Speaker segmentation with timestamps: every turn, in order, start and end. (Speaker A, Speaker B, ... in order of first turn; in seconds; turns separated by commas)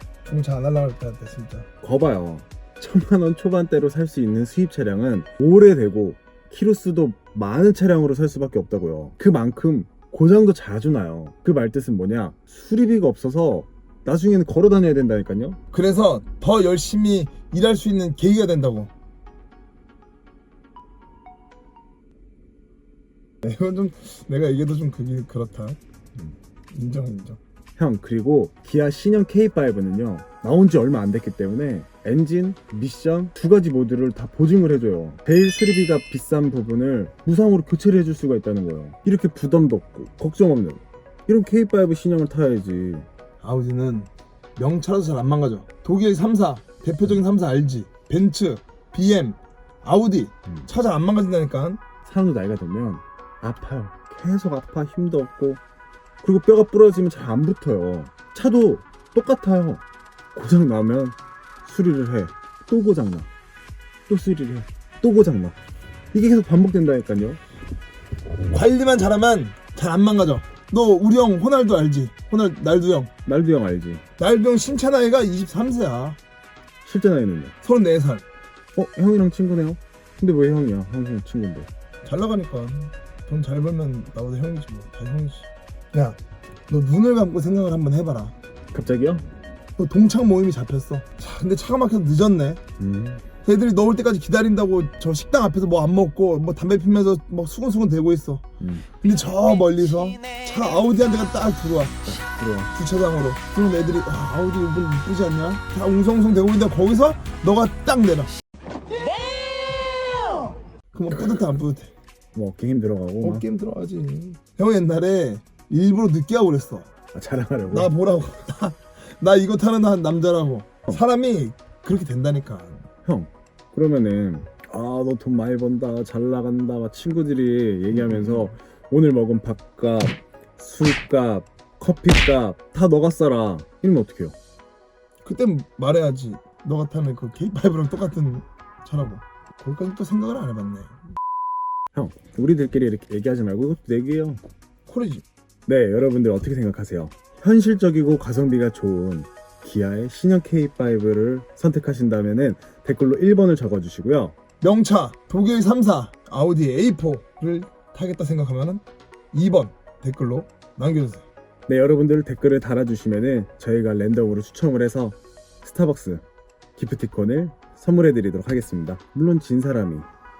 Speaker A: 0.2-1.7, Speaker B: 1.8-15.6, Speaker A: 15.7-18.9, Speaker A: 23.4-25.8, Speaker A: 26.7-27.4, Speaker B: 27.8-43.1, Speaker A: 43.4-51.8, Speaker B: 52.0-55.6, Speaker B: 56.2-59.8, Speaker B: 60.3-63.3, Speaker B: 64.1-65.6, Speaker B: 66.1-67.4, Speaker A: 68.5-73.1, Speaker B: 73.2-74.0, Speaker A: 74.2-76.2, Speaker B: 76.8-77.5, Speaker A: 77.6-78.2, Speaker B: 78.7-81.7, Speaker A: 82.0-88.3, Speaker B: 88.7-89.2, Speaker A: 89.8-92.6, Speaker B: 92.8-93.2, Speaker A: 93.4-102.0, Speaker B: 98.6-98.9, Speaker B: 102.0-102.7, Speaker A: 102.7-108.3, Speaker A: 110.9-111.9, Speaker B: 112.3-113.4, Speaker A: 113.2-116.9, Speaker B: 117.1-117.9, Speaker A: 117.7-122.9, Speaker B: 123.0-134.4, Speaker A: 127.9-128.5, Speaker A: 135.2-141.0, Speaker B: 141.9-144.4, Speaker A: 144.8-145.2, Speaker B: 145.7-154.3, Speaker A: 154.6-161.2, Speaker B: 161.7-166.2, Speaker B: 166.8-170.1